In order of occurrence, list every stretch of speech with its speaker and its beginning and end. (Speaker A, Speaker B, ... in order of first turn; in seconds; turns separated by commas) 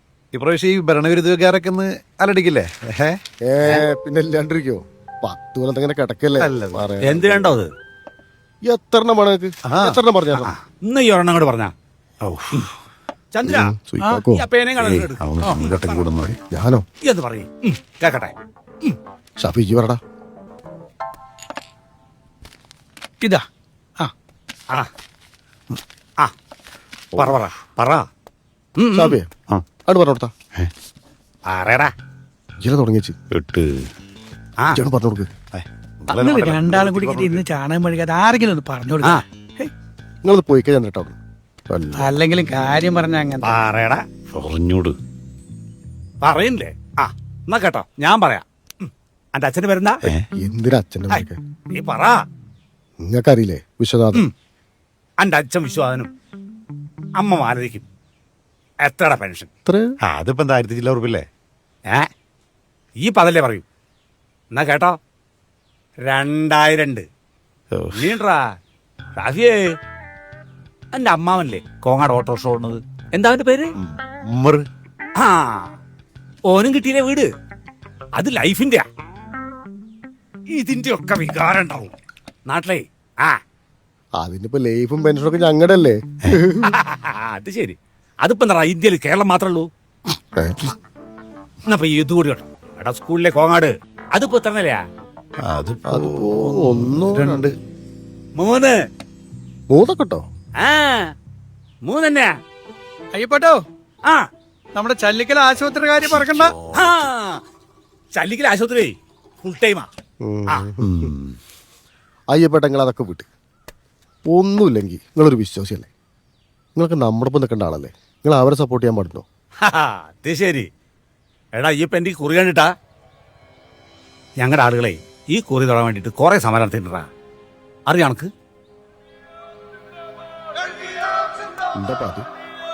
Speaker A: 0.3-3.8, Speaker B: 3.4-7.5, Speaker A: 6.4-6.9, Speaker C: 7.0-7.7, Speaker B: 8.7-10.5, Speaker A: 9.7-10.0, Speaker C: 10.4-11.7, Speaker A: 12.2-12.8, Speaker C: 13.3-13.7, Speaker B: 13.5-14.4, Speaker C: 14.3-16.1, Speaker A: 14.8-16.4, Speaker B: 16.5-16.8, Speaker C: 17.0-19.0, Speaker B: 19.4-20.0, Speaker C: 27.2-28.1, Speaker C: 28.8-29.2, Speaker B: 28.9-29.3, Speaker B: 29.9-30.3, Speaker C: 31.5-31.9, Speaker B: 32.6-33.2, Speaker A: 33.3-33.8, Speaker B: 34.7-35.3, Speaker A: 35.5-37.4, Speaker D: 36.1-39.7, Speaker B: 40.2-41.2, Speaker B: 41.7-42.1, Speaker D: 42.0-43.5, Speaker C: 43.4-44.0, Speaker A: 44.3-45.0, Speaker C: 46.2-50.0, Speaker B: 50.4-51.4, Speaker C: 51.1-52.2, Speaker B: 53.0-54.2, Speaker C: 55.2-56.1, Speaker C: 57.2-57.9, Speaker C: 58.8-59.5, Speaker B: 59.7-59.9, Speaker A: 60.0-61.3, Speaker C: 63.0-63.6, Speaker C: 64.5-65.0, Speaker C: 66.1-67.0, Speaker A: 67.7-68.2, Speaker C: 67.9-68.4, Speaker C: 69.2-69.7, Speaker C: 70.9-73.7, Speaker A: 74.1-74.6, Speaker C: 75.2-75.7, Speaker C: 76.5-77.3, Speaker C: 78.2-78.8, Speaker C: 80.5-81.9, Speaker C: 82.5-83.4, Speaker B: 84.2-86.8, Speaker C: 86.7-89.7, Speaker B: 90.4-90.7, Speaker C: 91.7-94.8, Speaker A: 95.4-97.5, Speaker B: 95.9-97.5, Speaker C: 98.4-98.8, Speaker B: 99.7-100.2, Speaker C: 100.6-101.1, Speaker C: 101.8-102.3, Speaker D: 103.1-103.6, Speaker D: 104.8-106.5, Speaker A: 106.1-107.0, Speaker C: 106.7-107.4, Speaker C: 108.1-109.9, Speaker B: 110.2-111.1, Speaker A: 110.8-111.4, Speaker B: 112.3-113.3, Speaker B: 114.3-115.9, Speaker B: 116.8-119.2, Speaker C: 119.6-120.7, Speaker C: 121.6-122.7, Speaker C: 124.4-127.1, Speaker C: 127.9-128.3, Speaker B: 131.8-132.3